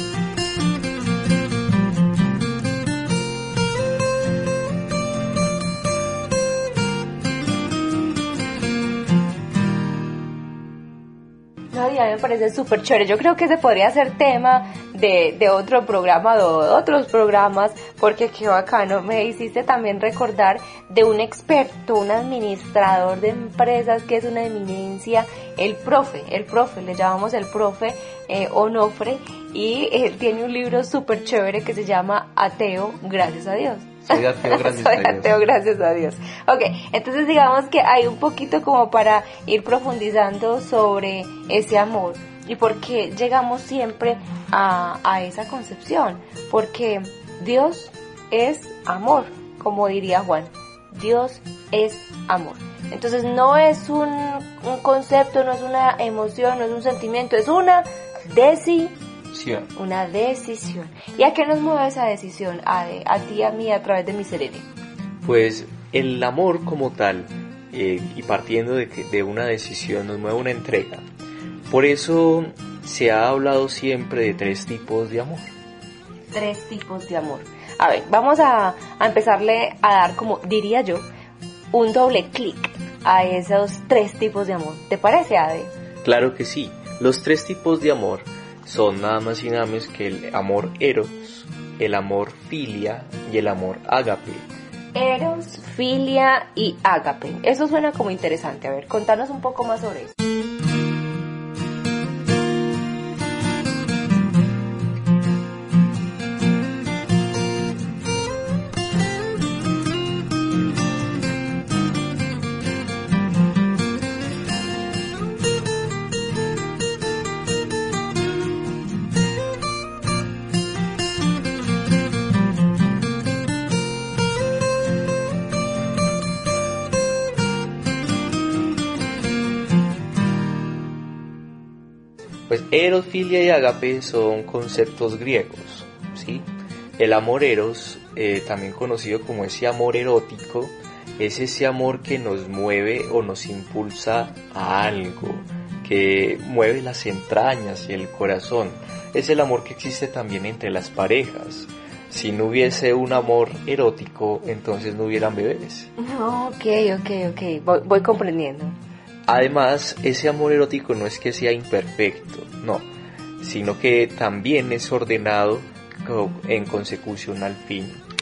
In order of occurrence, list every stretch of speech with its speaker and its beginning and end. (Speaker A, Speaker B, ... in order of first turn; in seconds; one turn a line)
Speaker A: 11.7-58.9
Speaker B: 34.1-35.4
Speaker B: 59.3-59.7
Speaker A: 59.7-64.7
Speaker B: 65.2-71.0
Speaker B: 71.7-75.5
Speaker A: 76.3-81.0
Speaker A: 81.7-85.7
Speaker B: 86.0-94.5
Speaker A: 94.9-100.2
Speaker B: 132.5-155.9
Speaker A: 156.0-158.7
Speaker B: 159.3-162.9
Speaker B: 163.4-168.0